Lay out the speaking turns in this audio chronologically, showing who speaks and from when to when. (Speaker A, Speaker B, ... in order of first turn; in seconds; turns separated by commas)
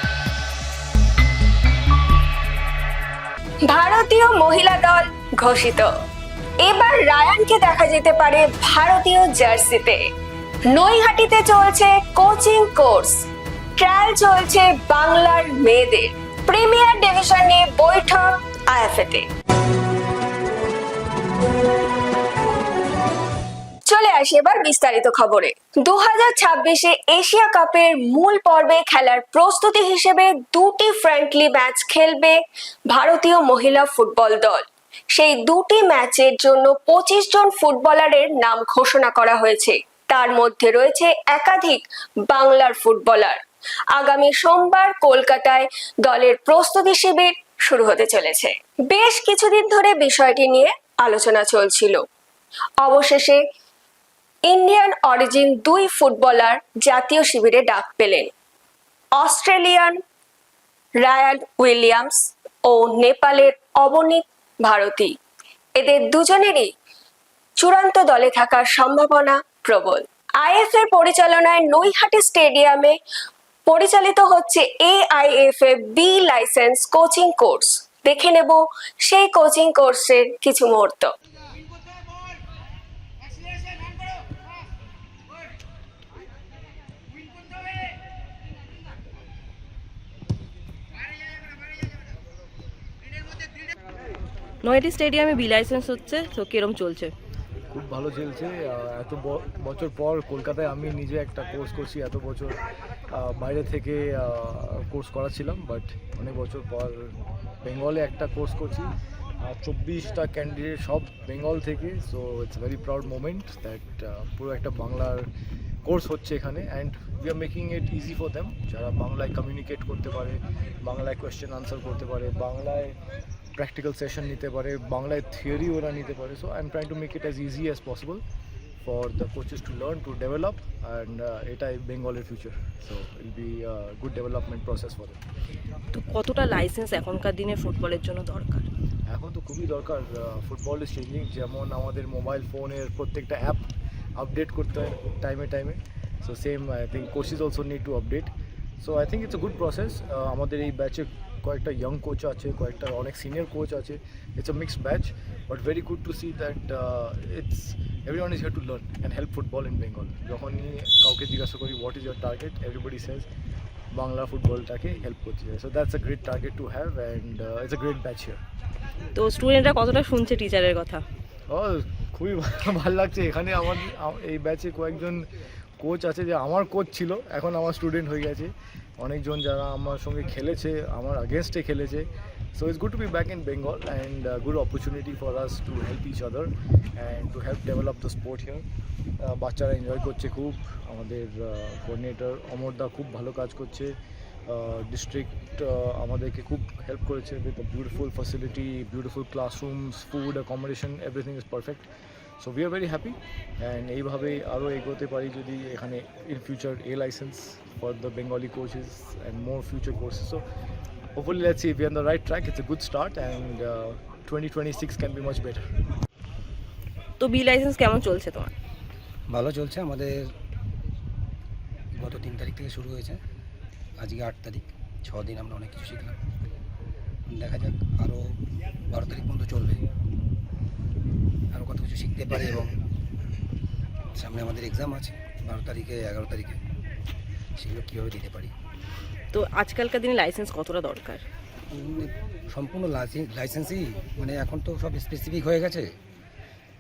Speaker A: 3.6-5.9, Speaker A: 6.6-10.0, Speaker A: 10.7-13.2, Speaker A: 13.8-19.2, Speaker A: 23.9-43.4, Speaker A: 43.9-52.0, Speaker A: 52.8-53.4, Speaker A: 54.5-58.3, Speaker A: 59.2-60.0, Speaker A: 61.0-65.1, Speaker A: 65.8-66.7, Speaker A: 67.6-72.9, Speaker A: 73.7-81.1, Speaker B: 94.6-97.1, Speaker C: 97.7-115.3, Speaker C: 115.8-123.0, Speaker C: 123.5-128.2, Speaker C: 128.8-135.2, Speaker B: 135.9-138.7, Speaker C: 139.1-143.6, Speaker C: 144.2-148.3, Speaker C: 148.8-163.2, Speaker C: 163.9-168.4, Speaker B: 169.1-171.0, Speaker C: 171.5-175.3, Speaker C: 175.8-188.7, Speaker C: 189.2-201.9, Speaker C: 202.4-210.4, Speaker C: 211.1-215.7, Speaker B: 217.2-218.5, Speaker D: 219.3-220.3, Speaker D: 221.9-223.2, Speaker D: 224.0-226.2, Speaker D: 227.3-229.8, Speaker D: 231.5-232.7, Speaker D: 234.2-236.6, Speaker D: 237.6-238.5, Speaker B: 239.3-241.2, Speaker D: 241.7-245.9